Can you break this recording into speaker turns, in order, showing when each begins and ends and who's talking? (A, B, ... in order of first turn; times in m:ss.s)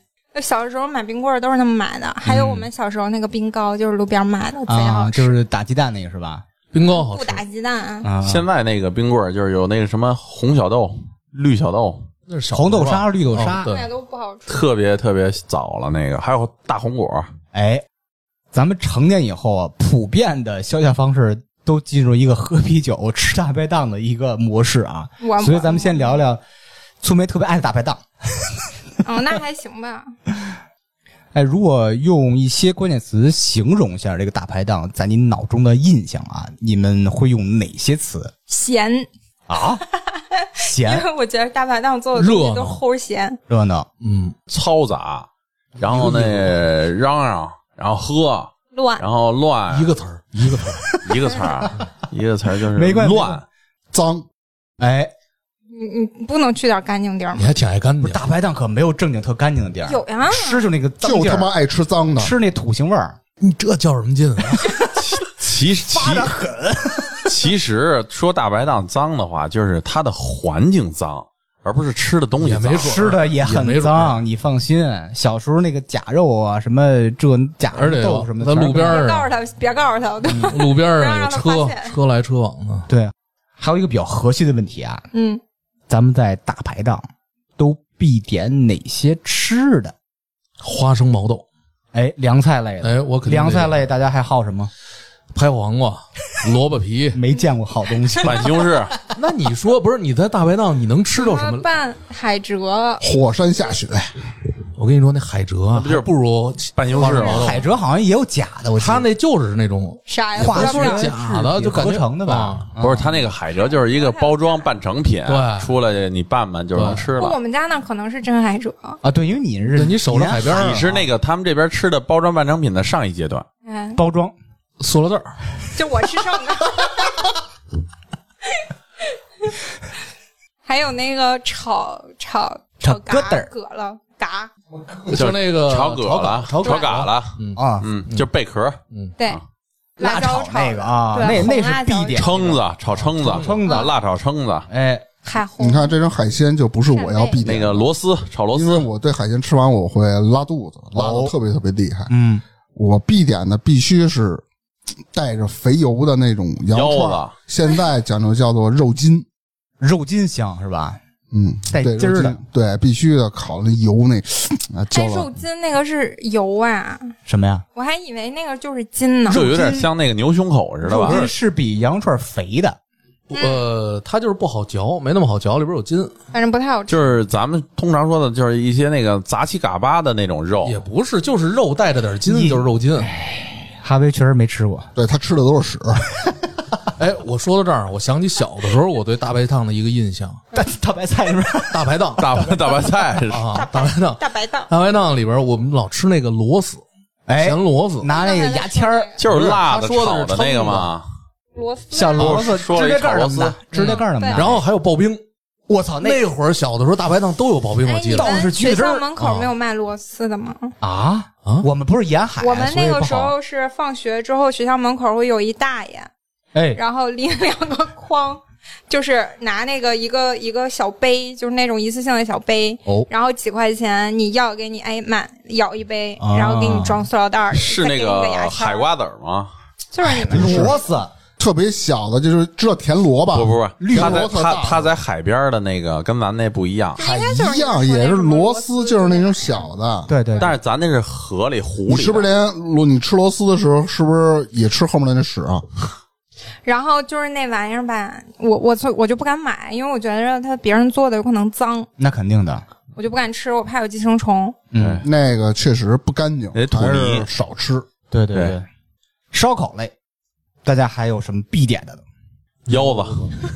0:00.3-0:05.4 A
0:02.3-0:02.6 B
0:04.7-0:06.4 B
0:06.7-0:07.4 C
0:06.8-0:08.1 A
0:08.0-0:08.4 B
0:08.2-0:12.0 D
0:12.3-0:13.9 C
0:12.5-0:13.7 B
0:13.7-0:14.6 A
0:14.5-0:17.3 D
0:17.5-0:17.8 B
0:18.5-0:26.4 B
0:25.2-0:26.2 A
0:27.0-0:28.5 B
0:29.0-0:30.1 A
0:31.3-0:38.3 B
0:38.5-0:39.1 A
0:39.5-0:39.8 B
0:39.9-0:43.4 A
0:40.6-0:41.1 B
0:42.1-0:42.8 C
0:43.5-0:43.9 B
0:44.0-0:44.3 C
0:44.5-0:45.3 D
0:45.8-0:49.9 D
0:45.9-0:46.5 C
0:48.7-0:49.0 A
0:49.7-0:50.8 C
0:50.3-0:51.4 B
0:51.0-0:53.4 D
0:52.7-0:53.4 B
0:53.9-0:54.2 E
0:54.8-0:55.1 B
0:55.7-0:57.6 A
0:57.4-0:58.2 C
0:58.0-1:01.5 B
0:59.8-1:00.7 A
1:01.0-1:02.3 E
1:02.2-1:03.2 B
1:03.4-1:04.7 C
1:05.0-1:06.3 D
1:05.9-1:07.3 B
1:07.2-1:13.0 D
1:12.4-1:14.2 C
1:12.8-1:19.0 B
1:17.7-1:19.3 C
1:18.7-1:22.0 A
1:20.3-1:22.8 C
1:22.9-1:25.0 B
1:25.1-1:25.4 A
1:25.9-1:29.9 B
1:30.6-1:31.4 C
1:31.9-1:34.7 B
1:32.8-1:33.8 C
1:35.3-1:37.2 C
1:37.1-1:38.4 B
1:38.2-1:38.9 D
1:39.1-1:41.6 C
1:41.1-1:43.0 A
1:43.0-1:44.2 E
1:44.8-1:47.6 C
1:45.7-1:46.1 D
1:46.8-1:47.5 D
1:47.0-1:47.4 A
1:47.3-1:49.1 B
1:48.8-1:52.6 C
1:50.0-1:51.1 A
1:50.4-1:53.1 B
1:52.8-1:57.4 D
1:53.5-1:54.7 A
1:55.3-1:55.7 C
1:56.7-1:57.1 C
1:57.2-1:59.0 A
1:59.0-2:00.8 B
1:59.7-2:01.1 C
2:00.4-2:03.4 D
2:03.6-2:04.0 A
2:04.0-2:04.3 B
2:04.8-2:05.3 C
2:05.7-2:07.3 A
2:10.6-2:14.5 A
2:12.8-2:13.5 B
2:15.0-2:18.3 C
2:15.1-2:19.4 D
2:16.6-2:16.9 A
2:17.6-2:17.9 B
2:20.0-2:22.5 A
2:20.0-2:22.6 B
2:22.1-2:24.7 D
2:23.2-2:23.9 B
2:23.2-2:23.6 C
2:23.6-2:23.9 A
2:24.7-2:25.0 B
2:25.2-2:25.9 A
2:25.6-2:27.9 E
2:26.9-2:27.4 A
2:27.4-2:28.9 D
2:28.5-2:32.1 E
2:30.9-2:31.3 B
2:32.1-2:32.4 B
2:32.7-2:34.4 E
2:35.1-2:39.2 E
2:36.7-2:37.3 D
2:39.8-2:41.0 B
2:41.3-2:45.3 E
2:41.7-2:42.4 B
2:44.9-2:47.1 A
2:47.2-2:47.6 B
2:47.7-2:49.4 A
2:49.3-2:49.9 B
2:49.3-2:51.3 D
2:50.8-2:52.8 B
2:53.3-2:56.2 C
2:53.3-2:53.6 A
2:56.3-2:57.0 A
2:56.9-3:00.8 D
3:00.6-3:03.1 C
3:02.2-3:04.9 B
3:04.9-3:06.2 E
3:07.0-3:10.4 C
3:10.5-3:11.9 B
3:11.7-3:12.6 C
3:12.2-3:13.5 D
3:13.3-3:16.8 C
3:13.5-3:14.7 A
3:17.3-3:19.1 B
3:17.4-3:18.1 C
3:18.1-3:19.2 A
3:19.2-3:21.0 D
3:19.3-3:20.9 C
3:21.5-3:22.4 A
3:21.9-3:24.6 B
3:22.2-3:23.6 D
3:23.7-3:25.2 C
3:23.9-3:24.4 A
3:25.7-3:26.2 B
3:26.0-3:28.4 C
3:27.8-3:30.7 A
3:28.1-3:29.1 B
3:29.2-3:29.4 C
3:30.8-3:33.3 B
3:32.4-3:36.1 A
3:36.5-3:36.8 B
3:36.7-3:48.9 A
3:46.2-3:47.1 B
3:47.5-3:49.5 D
3:49.9-3:50.8 A
3:50.0-3:51.1 B
3:50.3-3:50.7 E
3:51.4-3:54.9 E
3:53.3-3:57.0 D
3:53.8-3:54.3 B
3:57.0-3:59.7 A
3:57.0-4:00.1 E
4:00.1-4:00.5 B
4:00.4-4:02.3 D
4:01.9-4:05.6 E
4:06.6-4:11.9 A
4:12.0-4:12.6 B
4:13.0-4:14.6 A
4:14.7-4:15.0 B
4:14.8-4:15.0 D
4:15.0-4:17.9 E
4:16.5-4:17.3 D
4:18.1-4:18.6 B
4:19.3-4:19.9 B
4:20.6-4:22.0 B
4:22.7-4:23.3 D
4:22.7-4:23.4 C